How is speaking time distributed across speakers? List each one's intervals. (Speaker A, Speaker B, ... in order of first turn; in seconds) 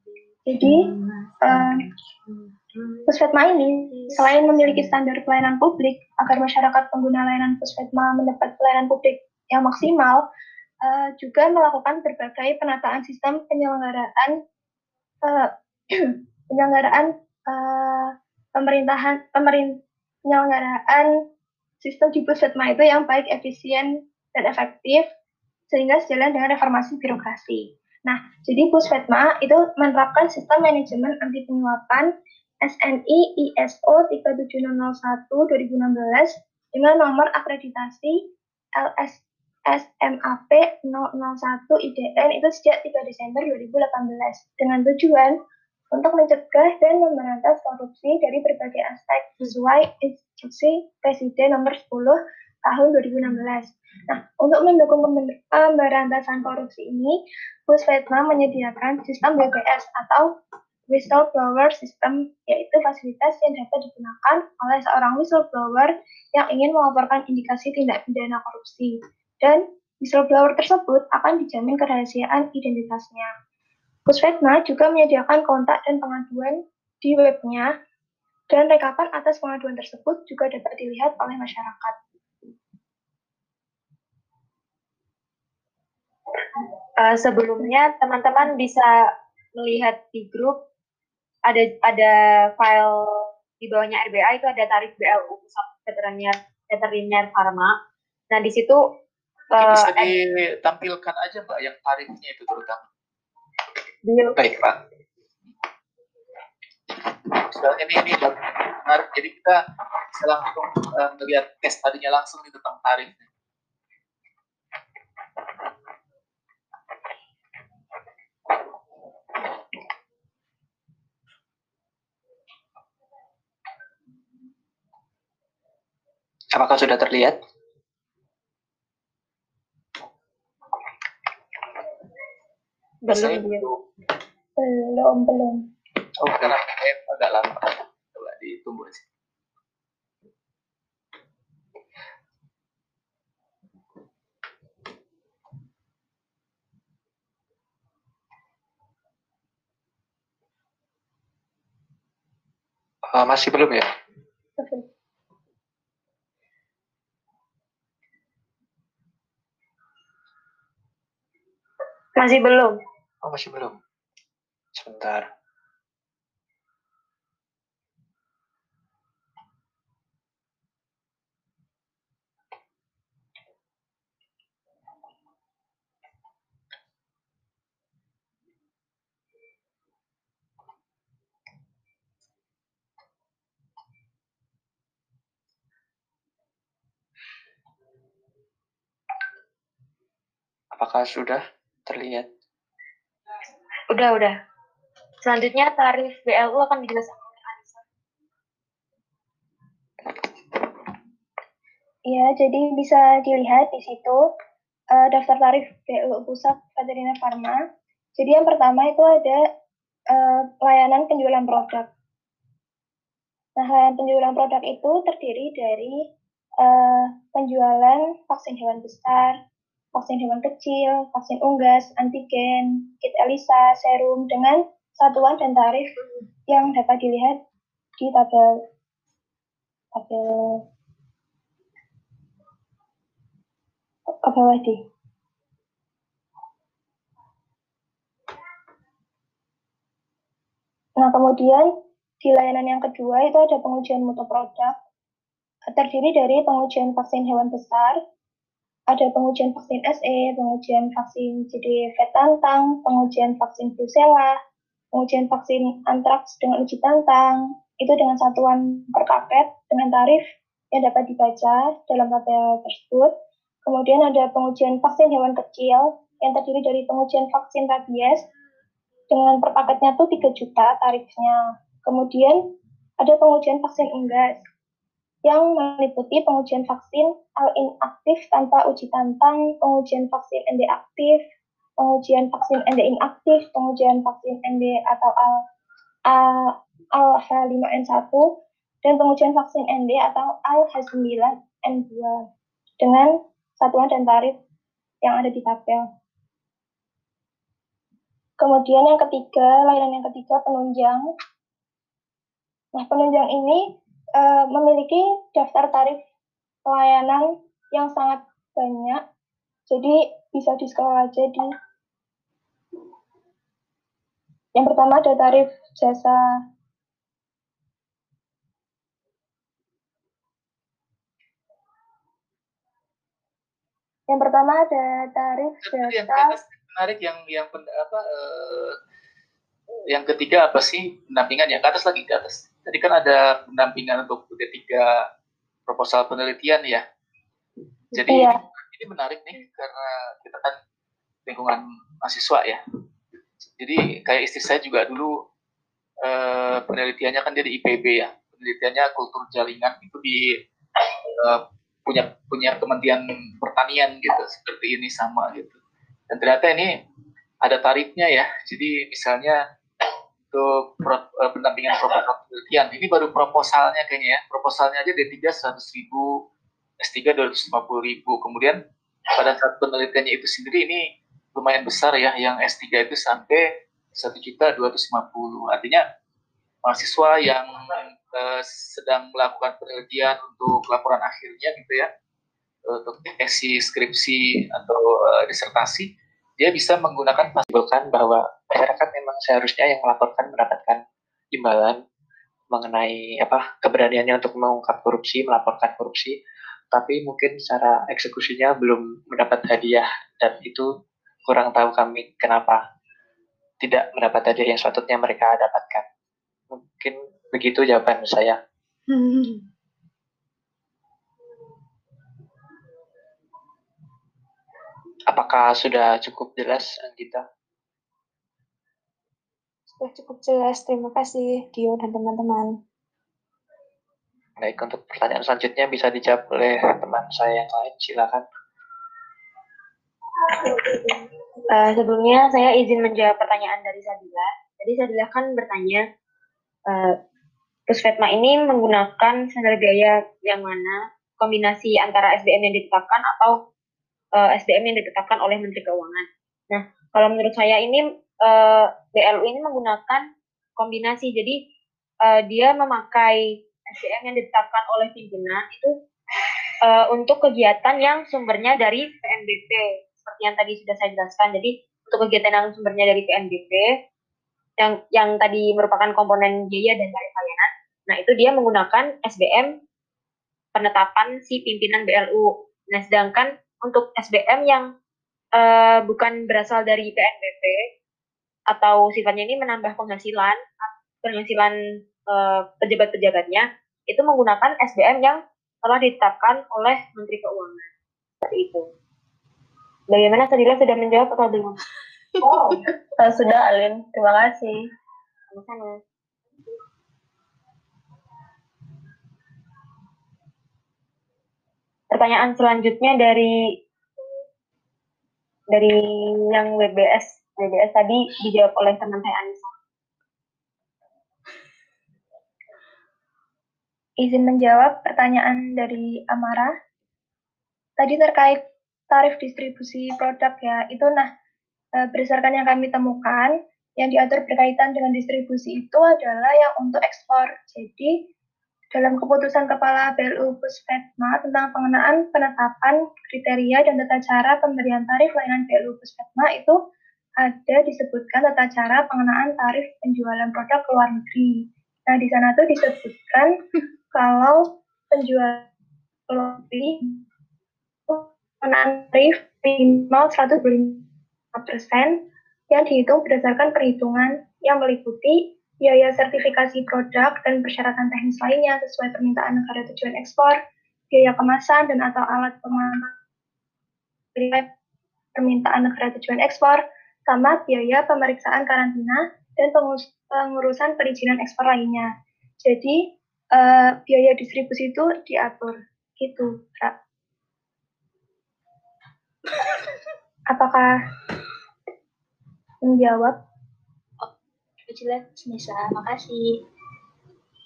Speaker A: 0.5-0.9, 1.4-1.9, 3.1-10.2, 10.8-14.4, 15.2-21.2, 21.8-25.1, 25.7-32.1, 32.6-38.2, 38.8-45.4, 45.9-57.2, 57.7-60.4, 60.9-73.3, 74.1-77.7, 78.5-82.0, 134.6-135.7, 154.6-154.8, 202.1-204.2, 204.9-207.6, 208.2-209.4, 210.1-211.9, 213.6-216.1, 216.6-219.4, 219.9-225.9, 226.5-227.4, 228.0-228.6, 229.9-230.6, 234.2-234.8, 241.0-244.8, 245.7-248.0, 248.9-254.4, 254.9-263.1, 263.6-268.2, 269.1-274.4, 275.2-281.2, 281.8-285.4, 286.1-292.2, 292.8-294.4, 295.0-295.9, 298.4-301.1, 302.8-306.0, 306.7-309.0, 309.7-311.5, 314.6-316.2, 324.1-326.4, 514.0-516.5, 517.8-521.1, 521.8-528.0, 528.7-536.6, 537.2-543.4, 543.9-545.5, 546.1-547.0, 547.9-552.0, 552.5-560.4, 560.9-562.9, 564.2-564.5, 565.1-571.9, 572.4-576.7, 580.3-580.7, 582.6-583.2
Speaker B: 87.0-90.6, 91.5-97.8, 98.3-98.8, 99.6-100.1, 104.0-104.3, 162.2-162.8, 193.9-194.4, 195.2-197.8, 431.5-435.8, 436.7-437.0, 437.7-443.4, 444.1-450.1, 450.6-451.4, 452.0-455.7, 456.6-463.7, 464.6-469.5, 470.6-474.7, 475.4-477.7, 478.5-487.7, 488.2-488.7, 489.9-491.6, 492.2-494.6, 495.3-495.8, 501.9-503.4, 505.5-509.5
Speaker C: 99.5-102.8, 107.3-109.6, 110.2-113.3, 133.1-133.8, 136.3-139.0, 325.6-328.8, 329.9-335.0, 335.7-336.8, 337.9-340.6, 341.3-342.6, 343.6-345.1, 346.0-350.4, 351.2-355.6, 356.1-356.7, 357.4-359.4, 360.3-366.2, 366.8-368.6, 369.1-375.9, 376.6-381.9, 382.7-387.5
Speaker D: 104.4-104.7, 126.5-127.4, 136.2-136.5, 153.1-153.9, 163.2-163.8, 164.7-165.3, 190.7-192.3, 387.5-390.8, 391.4-391.8, 392.5-396.2, 396.7-400.7, 401.3-402.6, 403.6-405.9, 406.5-408.4, 415.1-417.2, 424.4-428.2
Speaker E: 419.7-422.6